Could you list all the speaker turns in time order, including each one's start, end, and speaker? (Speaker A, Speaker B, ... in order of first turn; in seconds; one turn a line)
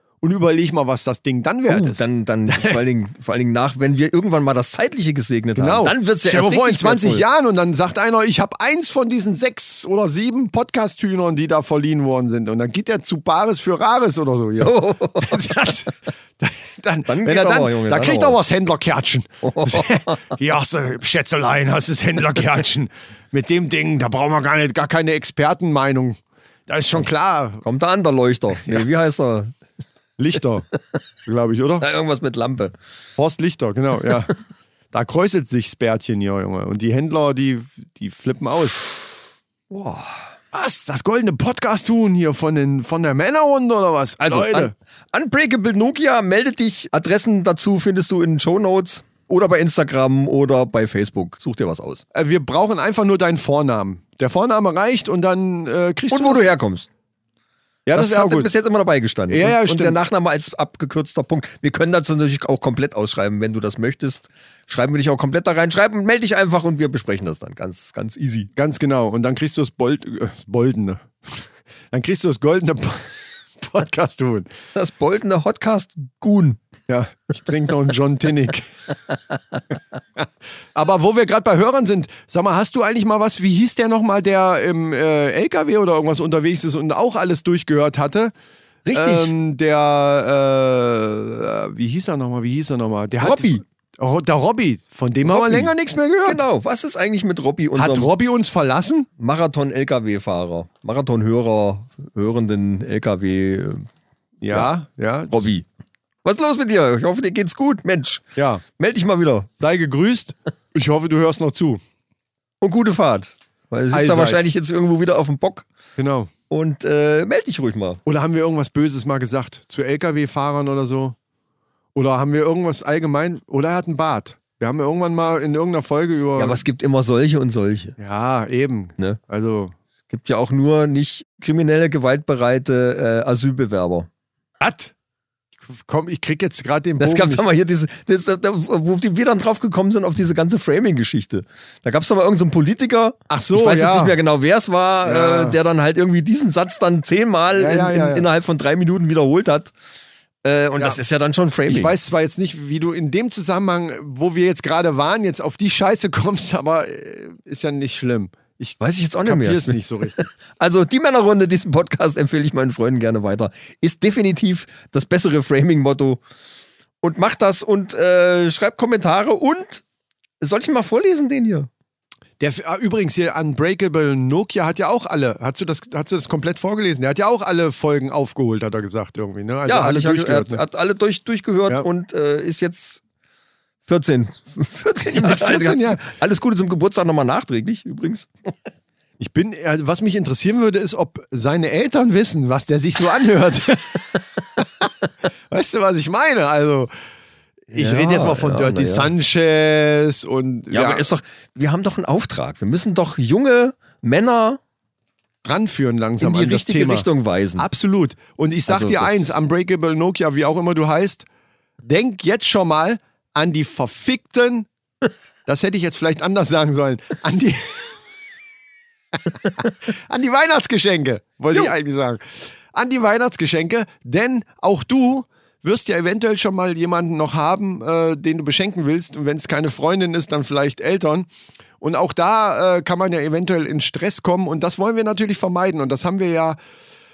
Speaker A: 0.2-2.8
Speaker B: 1.7-7.2
Speaker A: 5.5-27.6
Speaker B: 14.6-15.6
Speaker B: 17.1-18.4
Speaker B: 19.4-20.2
Speaker B: 27.6-29.5
Speaker A: 30.2-30.7
Speaker A: 31.2-31.9
Speaker B: 31.8-32.7
Speaker A: 33.2-34.3
Speaker A: 34.9-38.8
Speaker B: 39.7-40.2
Speaker A: 40.5-44.7
Speaker B: 44.2-52.0
Speaker A: 52.1-56.5
Speaker B: 56.1-56.9
Speaker A: 57.9-58.5
Speaker B: 57.9-68.5
Speaker A: 59.3-60.0
Speaker A: 68.5-74.5
Speaker B: 74.7-76.6
Speaker A: 76.9-78.7
Speaker A: 80.7-88.3
Speaker B: 88.8-89.3
Speaker A: 88.9-96.4
Speaker B: 93.2-93.6
Speaker B: 95.2-98.1
Speaker A: 97.7-99.1
Speaker B: 99.2-103.9
Speaker A: 104.4-105.5
Speaker B: 105.3-105.7
Speaker B: 106.2-109.5
Speaker A: 108.3-108.6
Speaker A: 109.6-111.8
Speaker B: 112.6-115.7
Speaker A: 113.9-114.5
Speaker A: 116.0-116.3
Speaker B: 116.5-118.0
Speaker A: 118.0-121.2
Speaker A: 121.9-126.6
Speaker B: 126.4-127.9
Speaker A: 128.0-129.7
Speaker B: 130.1-134.1
Speaker A: 134.6-134.9
Speaker A: 135.6-137.4
Speaker B: 137.0-149.7
Speaker A: 143.3-144.2
Speaker A: 145.0-145.6
Speaker A: 147.5-148.3
Speaker B: 150.4-151.9
Speaker A: 151.7-160.2
Speaker B: 158.8-166.2
Speaker B: 167.0-169.8
Speaker B: 170.4-171.7
Speaker A: 172.4-180.6
Speaker B: 179.7-183.0
Speaker B: 183.8-188.5
Speaker A: 185.1-186.0
Speaker A: 189.2-194.0
Speaker A: 195.5-196.9
Speaker A: 197.7-201.1
Speaker B: 197.7-199.1
Speaker B: 200.7-204.6
Speaker A: 205.4-211.2
Speaker B: 206.2-207.7
Speaker B: 208.7-209.3
Speaker A: 211.8-214.7
Speaker A: 215.4-217.9
Speaker A: 219.9-231.3
Speaker A: 231.8-236.6